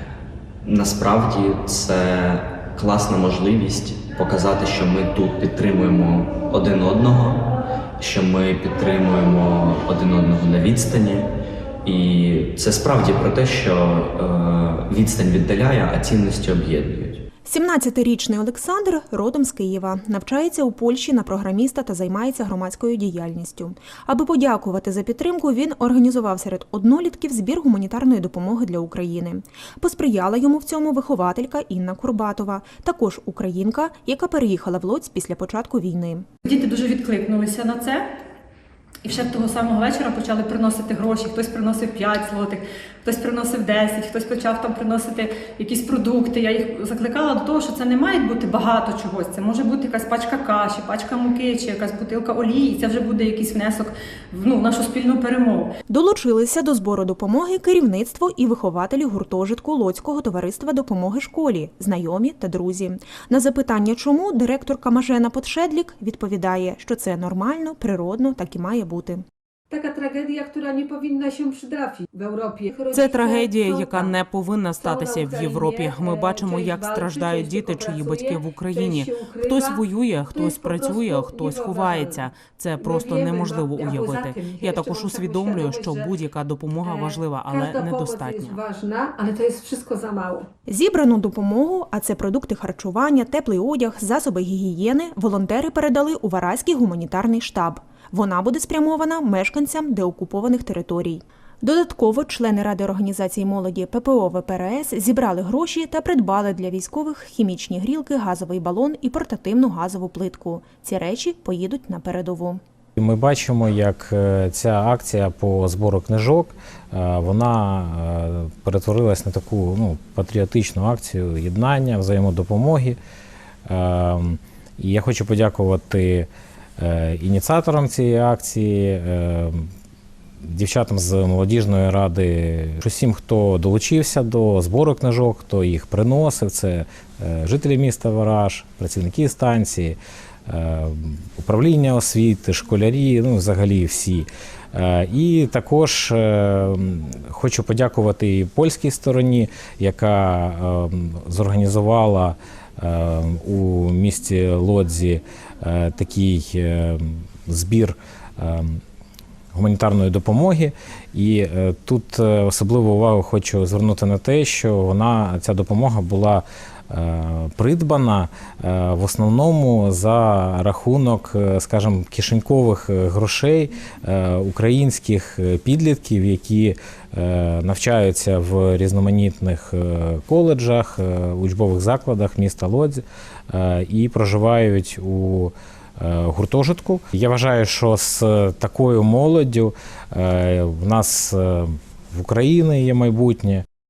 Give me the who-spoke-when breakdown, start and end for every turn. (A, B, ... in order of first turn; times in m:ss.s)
0:00.6-0:11.3 A
0:11.8-0:17.2 A
0:17.4-0:36.3 B
0:36.4-0:38.0 C
0:39.0-0:55.7 C
0:55.9-1:09.2 B
1:09.7-1:14.2 D
1:12.9-1:28.6 E
1:14.8-1:26.2 D
1:26.8-1:30.5 D
1:30.7-1:52.6 B
1:53.0-2:03.0 F
2:03.7-2:09.7 F
2:10.4-2:38.8 F
2:39.5-3:13.6 F